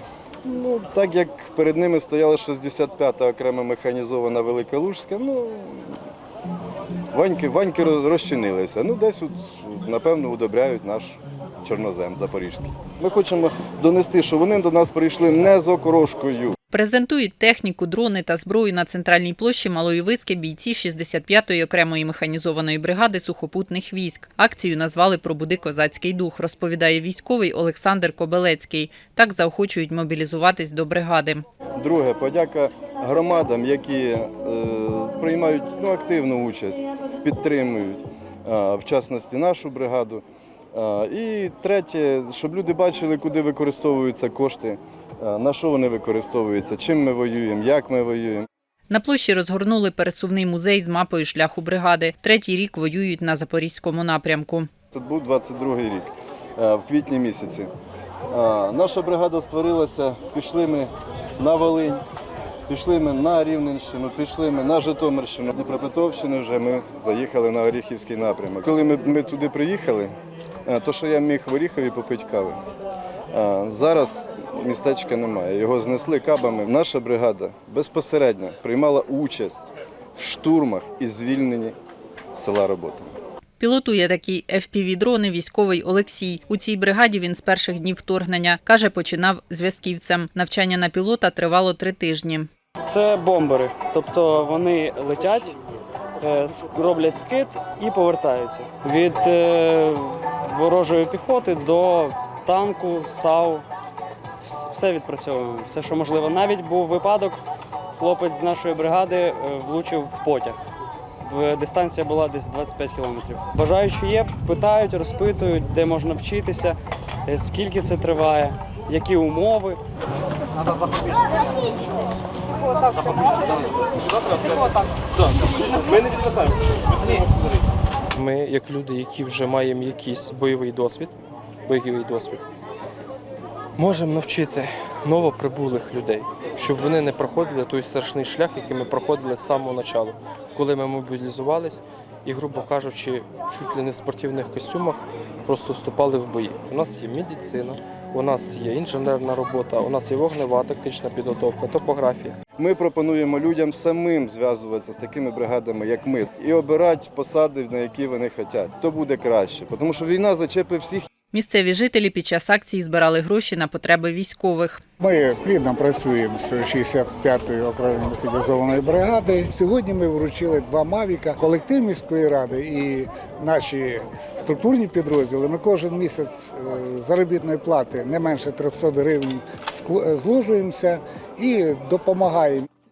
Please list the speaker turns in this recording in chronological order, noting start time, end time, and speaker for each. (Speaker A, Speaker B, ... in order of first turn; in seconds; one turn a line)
Speaker A: 0.4-5.9
Speaker A: 7.1-16.6
Speaker B: 16.7-31.4
Speaker A: 31.8-48.5
Speaker B: 48.9-54.7
Speaker A: 54.9-57.7
Speaker A: 58.3-62.0
Speaker A: 62.7-70.1
Speaker A: 70.7-72.6
Speaker A: 73.3-81.8
Speaker A: 82.3-83.1
Speaker B: 83.6-92.5
Speaker C: 92.9-95.5
Speaker C: 96.2-103.6
Speaker C: 104.4-107.4
Speaker C: 108.0-110.6
Speaker C: 111.2-116.8
Speaker C: 117.3-119.8
Speaker D: 128.1-131.1
Speaker D: 131.7-132.4
Speaker D: 133.8-152.4
Speaker A: 152.6-161.1
Speaker B: 161.3-164.8
Speaker E: 165.0-182.7